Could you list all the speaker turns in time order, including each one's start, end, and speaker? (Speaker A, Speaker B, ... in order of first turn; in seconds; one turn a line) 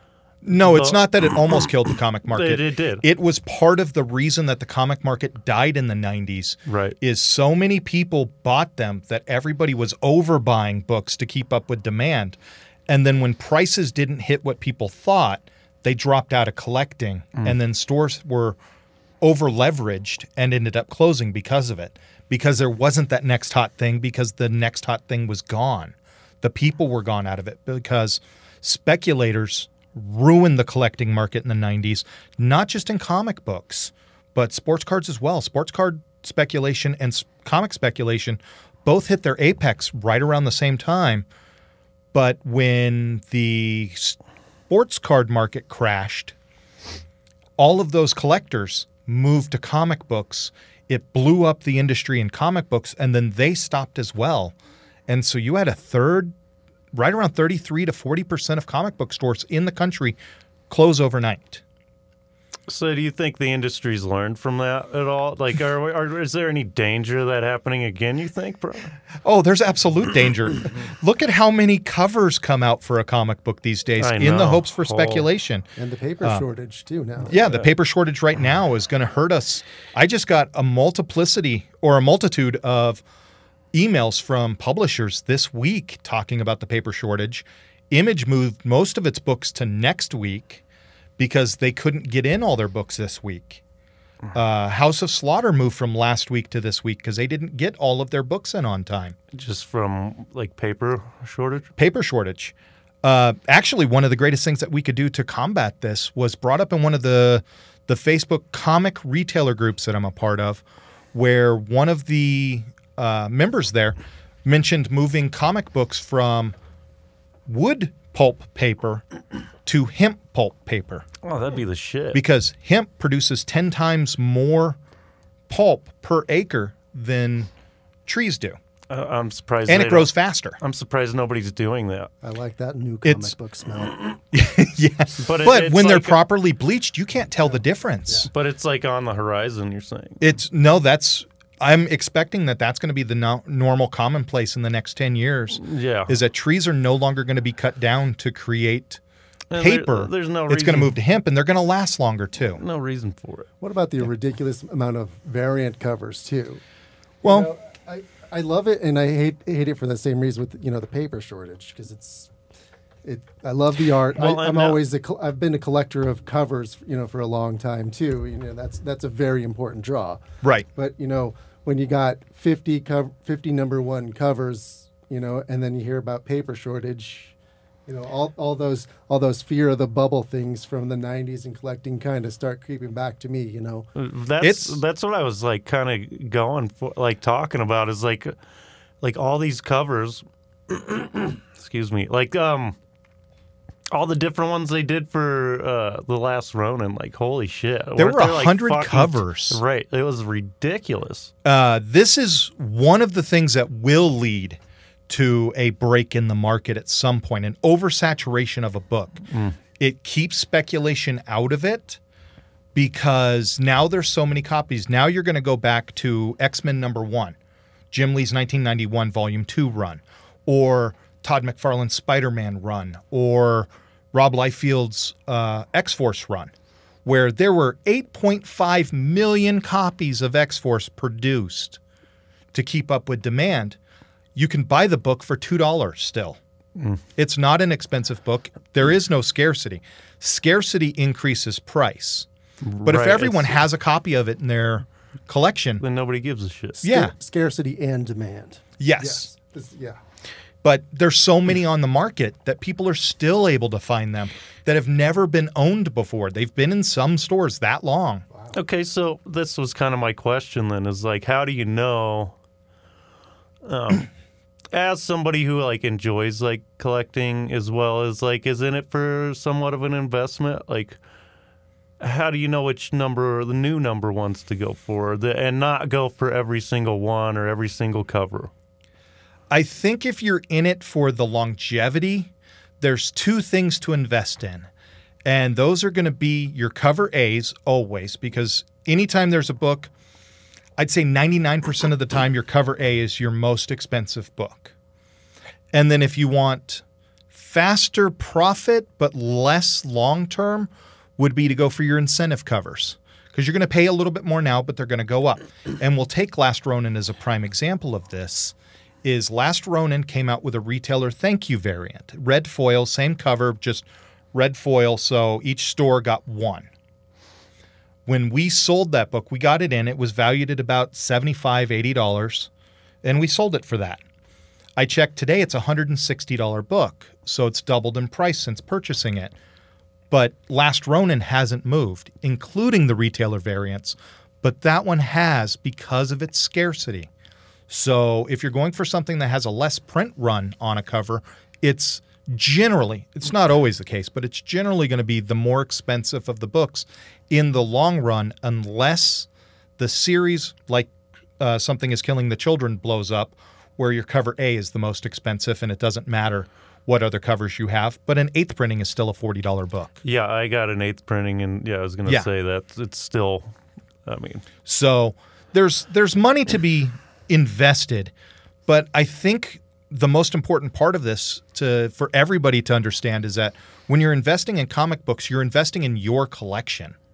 Speaker A: 0.4-18.6
Speaker B: 0.6-1.7
Speaker B: 2.3-3.0
Speaker B: 6.7-7.0
Speaker A: 19.2-41.3
Speaker A: 42.1-44.2
Speaker A: 44.7-46.3
Speaker A: 47.6-54.5
Speaker A: 55.1-56.3
Speaker A: 56.9-60.2
Speaker A: 60.7-61.6
Speaker B: 62.7-68.9
Speaker A: 69.2-75.7
Speaker B: 74.0-75.3
Speaker C: 75.8-77.4
Speaker A: 77.3-83.0
Speaker B: 77.4-77.7
Speaker A: 83.7-90.6
Speaker A: 91.2-93.6
Speaker A: 94.3-99.2
Speaker B: 99.3-101.7
Speaker A: 101.8-110.6
Speaker A: 111.1-116.5
Speaker A: 117.5-119.0
Speaker A: 119.7-121.1
Speaker B: 121.2-122.2
Speaker A: 122.1-124.8
Speaker A: 125.5-127.5
Speaker A: 128.1-128.6
Speaker B: 128.9-132.1
Speaker A: 129.7-130.6
Speaker C: 132.2-134.0
Speaker A: 133.0-133.3
Speaker A: 134.3-138.3
Speaker B: 135.2-136.2
Speaker B: 138.3-140.2
Speaker A: 140.2-149.0
Speaker B: 145.6-146.2
Speaker B: 149.5-151.0
Speaker A: 149.6-152.6
Speaker B: 152.6-153.5
Speaker C: 153.6-156.6
Speaker A: 157.2-157.5
Speaker C: 157.2-162.3
Speaker C: 163.1-170.2
Speaker B: 164.1-164.8
Speaker C: 170.7-177.3
Speaker C: 177.9-183.9
Speaker B: 183.9-188.3
Speaker A: 184.4-184.8
Speaker B: 189.0-192.8
Speaker B: 193.9-201.3
Speaker A: 198.0-199.6
Speaker A: 201.4-209.2
Speaker B: 209.3-209.6
Speaker A: 209.8-212.0
Speaker A: 212.8-217.4
Speaker A: 217.9-226.5
Speaker A: 227.1-231.8
Speaker A: 232.5-233.8
Speaker A: 234.4-236.4
Speaker B: 236.8-237.0
Speaker A: 237.2-242.3
Speaker B: 242.6-243.6
Speaker A: 242.8-245.8
Speaker B: 245.8-246.8
Speaker C: 246.8-250.0
Speaker A: 246.8-247.1
Speaker A: 248.8-249.3
Speaker A: 250.6-258.2
Speaker B: 258.5-262.4
Speaker B: 263.6-264.1
Speaker B: 264.7-271.0
Speaker B: 272.0-278.5
Speaker A: 279.5-284.7
Speaker A: 285.2-289.9
Speaker A: 290.8-294.7
Speaker A: 295.7-316.7
Speaker A: 318.1-322.5
Speaker A: 323.0-324.0
Speaker A: 324.8-329.3
Speaker A: 330.1-337.1
Speaker A: 337.7-360.0
Speaker B: 360.0-363.5
Speaker B: 364.1-364.4
Speaker A: 364.7-368.1
Speaker A: 368.7-377.0